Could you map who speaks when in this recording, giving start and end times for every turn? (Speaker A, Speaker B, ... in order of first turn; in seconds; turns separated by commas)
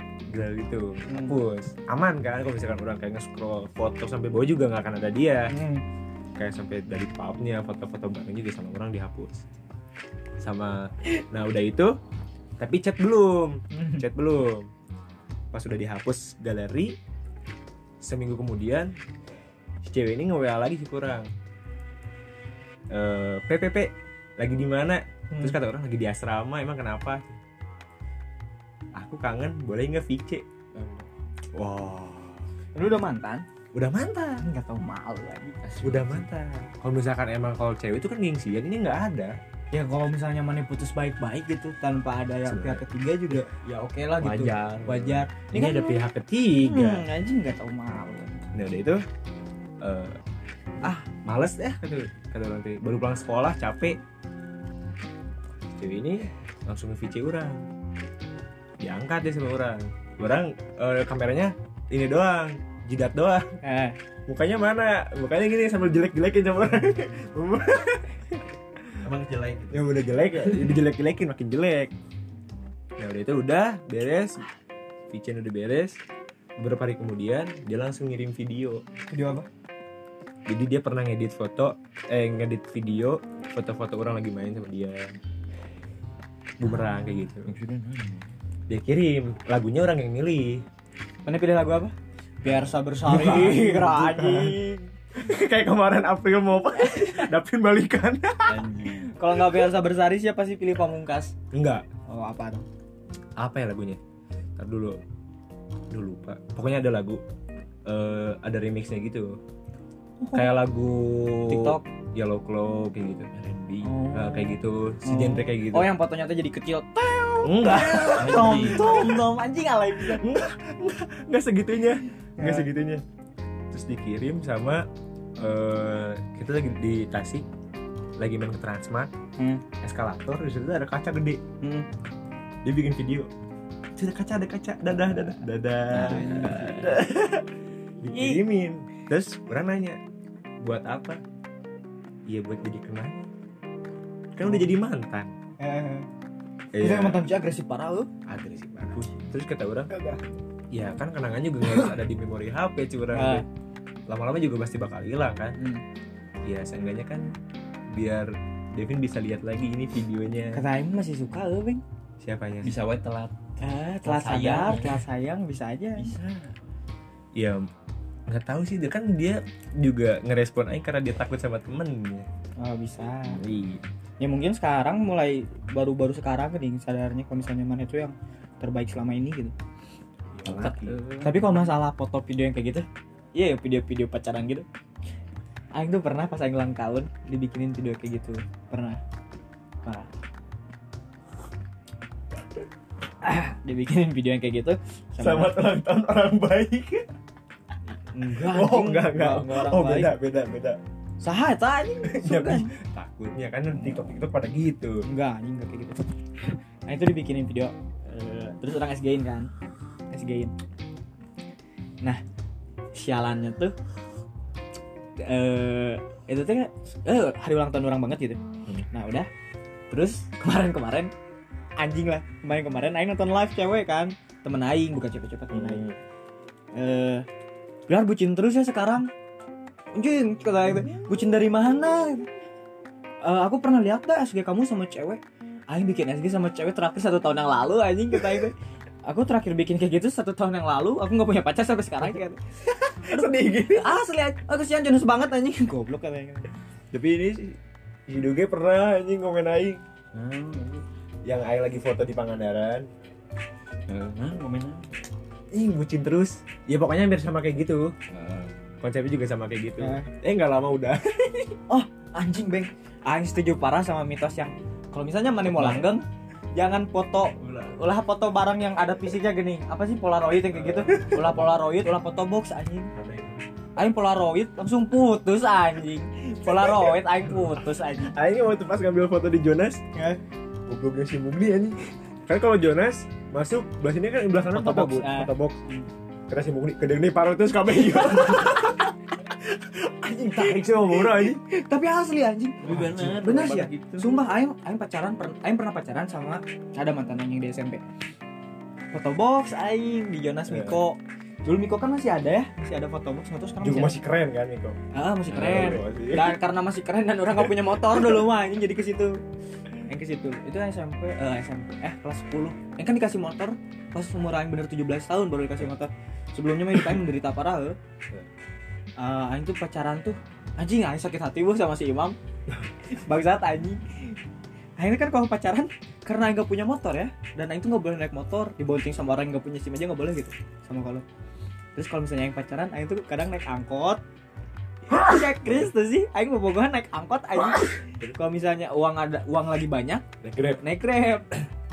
Speaker A: 0.3-5.5, Speaker B: 1.1-1.4, Speaker B: 5.5-5.8, Speaker A: 6.3-9.4, Speaker A: 10.4-11.9, Speaker A: 12.6-14.7, Speaker B: 13.7-14.0, Speaker A: 15.5-16.9, Speaker A: 18.0-18.9, Speaker A: 19.8-21.3, Speaker A: 22.9-27.4, Speaker B: 25.3-25.6, Speaker A: 28.9-30.4, Speaker C: 30.7-31.1, Speaker A: 31.5-32.4, Speaker B: 32.7-33.4, Speaker A: 33.7-34.4, Speaker B: 34.4-35.6, Speaker C: 35.6-36.2, Speaker A: 35.8-39.4, Speaker B: 39.7-46.0, Speaker A: 42.5-43.6, Speaker A: 44.2-47.0, Speaker B: 46.6-48.4, Speaker A: 48.5-49.0, Speaker A: 49.8-50.2, Speaker A: 50.9-54.0, Speaker A: 55.8-57.6, Speaker A: 58.8-63.5, Speaker B: 63.6-64.0, Speaker A: 64.3-69.0, Speaker C: 69.0-70.7, Speaker A: 69.7-71.9, Speaker A: 73.0-74.4, Speaker A: 75.1-76.0, Speaker A: 76.6-78.8, Speaker B: 79.1-79.5, Speaker A: 80.5-85.1, Speaker A: 86.6-87.5, Speaker B: 86.6-87.3, Speaker C: 87.5-88.3, Speaker A: 88.7-90.6, Speaker B: 91.2-94.9, Speaker A: 93.0-94.6, Speaker A: 95.1-98.7, Speaker C: 98.5-99.1, Speaker B: 99.1-101.3, Speaker A: 99.4-99.7, Speaker A: 101.5-101.8, Speaker B: 102.1-102.7, Speaker A: 103.4-104.0, Speaker A: 104.6-105.0, Speaker A: 105.9-107.2, Speaker A: 107.8-109.4, Speaker B: 110.2-110.5, Speaker A: 110.3-113.3, Speaker B: 111.5-111.8, Speaker C: 113.3-114.0, Speaker B: 113.8-120.2, Speaker A: 114.1-115.9, Speaker A: 117.4-119.3, Speaker C: 117.8-119.2, Speaker A: 120.0-123.0, Speaker B: 122.4-122.7, Speaker A: 123.7-124.8, Speaker A: 125.4-127.5, Speaker A: 128.2-129.1, Speaker B: 129.4-129.6, Speaker A: 129.8-131.4, Speaker A: 132.6-133.3, Speaker A: 133.9-140.0, Speaker C: 135.9-137.0, Speaker B: 135.9-136.7, Speaker B: 138.1-138.4, Speaker A: 140.6-141.2, Speaker A: 142.3-143.3, Speaker A: 144.3-145.3, Speaker B: 144.4-144.7, Speaker B: 145.6-146.1, Speaker A: 146.7-147.2, Speaker B: 146.8-148.1, Speaker A: 148.2-149.9, Speaker C: 149.0-149.3, Speaker B: 149.9-150.2, Speaker A: 150.7-153.4, Speaker B: 153.1-153.4, Speaker A: 154.1-155.6, Speaker A: 156.4-157.3, Speaker A: 157.9-160.6, Speaker B: 160.5-161.8, Speaker A: 162.2-162.8, Speaker C: 162.6-165.0, Speaker B: 163.6-166.1, Speaker C: 166.0-166.5, Speaker A: 167.3-167.6, Speaker A: 168.3-172.3, Speaker B: 172.6-173.4, Speaker C: 173.3-173.8, Speaker B: 174.2-179.5, Speaker A: 180.3-181.0, Speaker C: 180.5-181.4, Speaker B: 181.2-184.7, Speaker B: 185.8-189.0, Speaker B: 189.8-190.1, Speaker B: 193.2-195.6, Speaker A: 195.2-197.1, Speaker B: 198.1-200.1, Speaker A: 198.3-200.8, Speaker B: 201.2-202.7, Speaker A: 202.0-205.0, Speaker B: 205.1-206.0, Speaker B: 206.9-209.5, Speaker B: 210.1-210.5, Speaker B: 212.9-213.7, Speaker B: 215.2-219.3, Speaker B: 219.9-221.1, Speaker B: 221.8-225.8, Speaker A: 225.5-226.0, Speaker B: 226.7-227.2, Speaker B: 227.9-229.1, Speaker B: 229.9-232.3, Speaker B: 233.2-238.5, Speaker B: 239.0-242.4, Speaker A: 242.6-244.0, Speaker B: 243.1-246.5, Speaker A: 246.9-249.8, Speaker C: 250.1-250.8, Speaker A: 251.2-252.9, Speaker C: 253.9-254.8, Speaker A: 255.5-257.9, Speaker C: 258.1-258.5, Speaker A: 258.8-261.6, Speaker B: 259.8-260.1, Speaker B: 261.7-272.9, Speaker A: 265.4-265.9, Speaker C: 267.4-267.7, Speaker A: 270.5-271.5, Speaker A: 272.9-273.4, Speaker B: 273.8-278.1, Speaker A: 276.4-279.8, Speaker B: 279.9-280.2, Speaker A: 280.7-285.6, Speaker B: 284.5-285.9, Speaker A: 286.3-291.4, Speaker B: 288.1-288.7, Speaker B: 290.3-297.8, Speaker C: 292.6-294.2, Speaker A: 292.7-293.2, Speaker B: 298.9-303.9, Speaker A: 300.5-300.8, Speaker A: 303.6-306.4, Speaker B: 304.9-309.2, Speaker A: 307.4-308.2, Speaker B: 309.8-317.8, Speaker B: 319.0-322.1, Speaker B: 322.9-324.1, Speaker B: 324.8-331.0, Speaker B: 331.7-334.0, Speaker B: 334.9-340.0, Speaker A: 335.4-335.7, Speaker A: 337.6-338.1, Speaker A: 340.2-340.6, Speaker B: 340.6-341.4